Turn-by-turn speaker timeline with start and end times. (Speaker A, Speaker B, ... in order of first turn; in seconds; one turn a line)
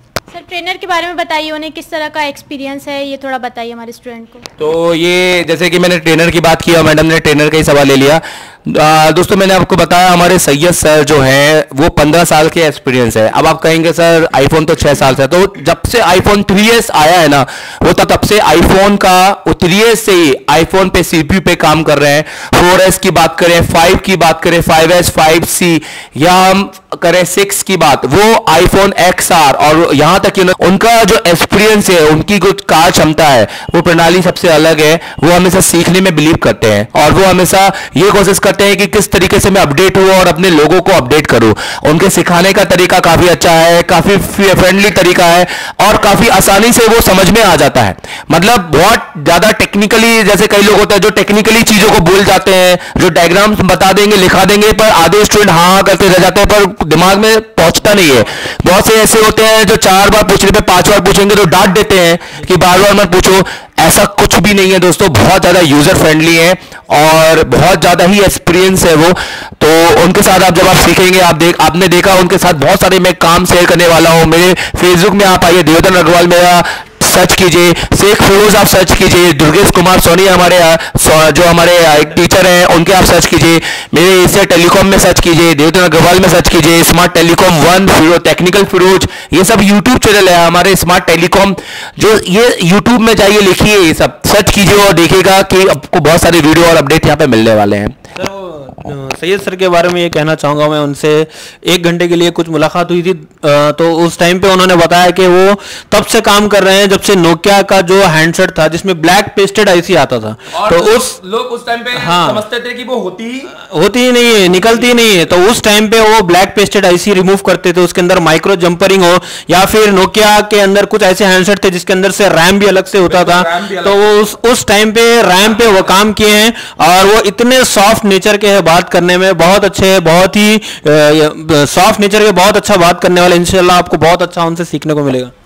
Speaker A: 0.3-4.5
Speaker B: 4.6-98.0
Speaker C: 98.2-111.2
Speaker B: 110.5-113.5
Speaker C: 112.0-112.5
Speaker C: 113.5-135.3
Speaker B: 114.5-115.2
Speaker B: 123.0-124.3
Speaker B: 125.6-125.9